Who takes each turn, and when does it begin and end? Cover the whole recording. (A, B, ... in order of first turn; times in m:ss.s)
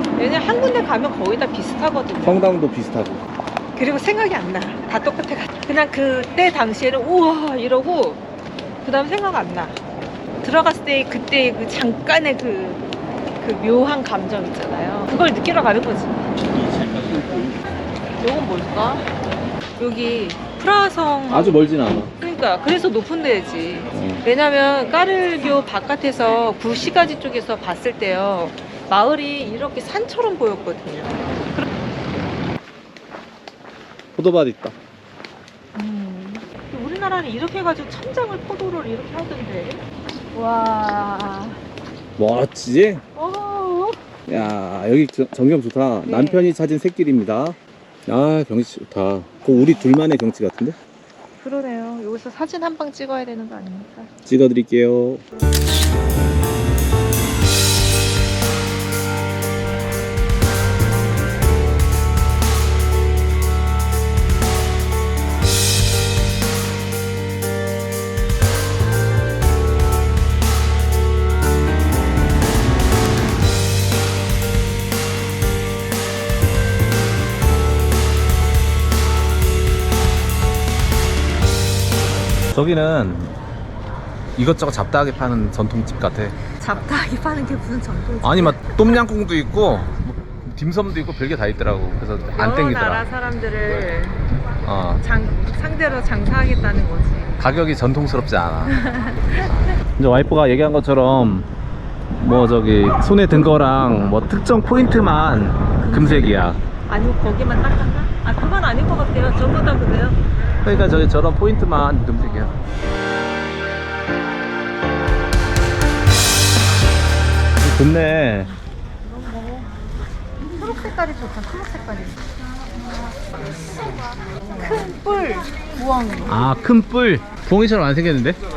0:00.2-0:02.4 A
0:02.2-0:03.2 B
0:03.8-0:08.2 A
0:08.8-0:09.8 A
0:10.4-0:12.8 A
0:13.4-0:16.3 A
0:18.2-0:19.0 A
0:19.8-0:21.6 A
0:21.3-0:22.1 B
0:22.2-0:31.7 A
0:23.9-0:24.2 B
0:34.2-0:34.8 B
0:35.8-0:39.8 A
0:40.3-0:41.6 A
0:42.2-0:43.0 B
0:43.2-0:44.0 A
0:44.3-0:47.6 B
0:46.0-0:46.5 A
0:48.1-0:50.8 B
0:51.4-0:54.1 A
0:54.3-0:55.2 B
1:22.5-1:23.3 B
1:24.4-1:26.4 B
1:26.6-1:29.0 A
1:28.2-1:33.1 B
1:32.4-1:34.2 A
1:34.6-1:35.0 B
1:35.0-1:37.4 A
1:37.4-1:38.8 B
1:38.7-1:39.5 A
1:40.0-1:41.5 B
1:42.1-1:46.6 B
1:45.6-1:50.2 A
1:50.6-1:52.5 B
1:57.6-1:58.5 B
1:59.0-1:59.7 A
2:00.6-2:02.2 A
2:04.6-2:06.4 A
2:06.3-2:08.4 B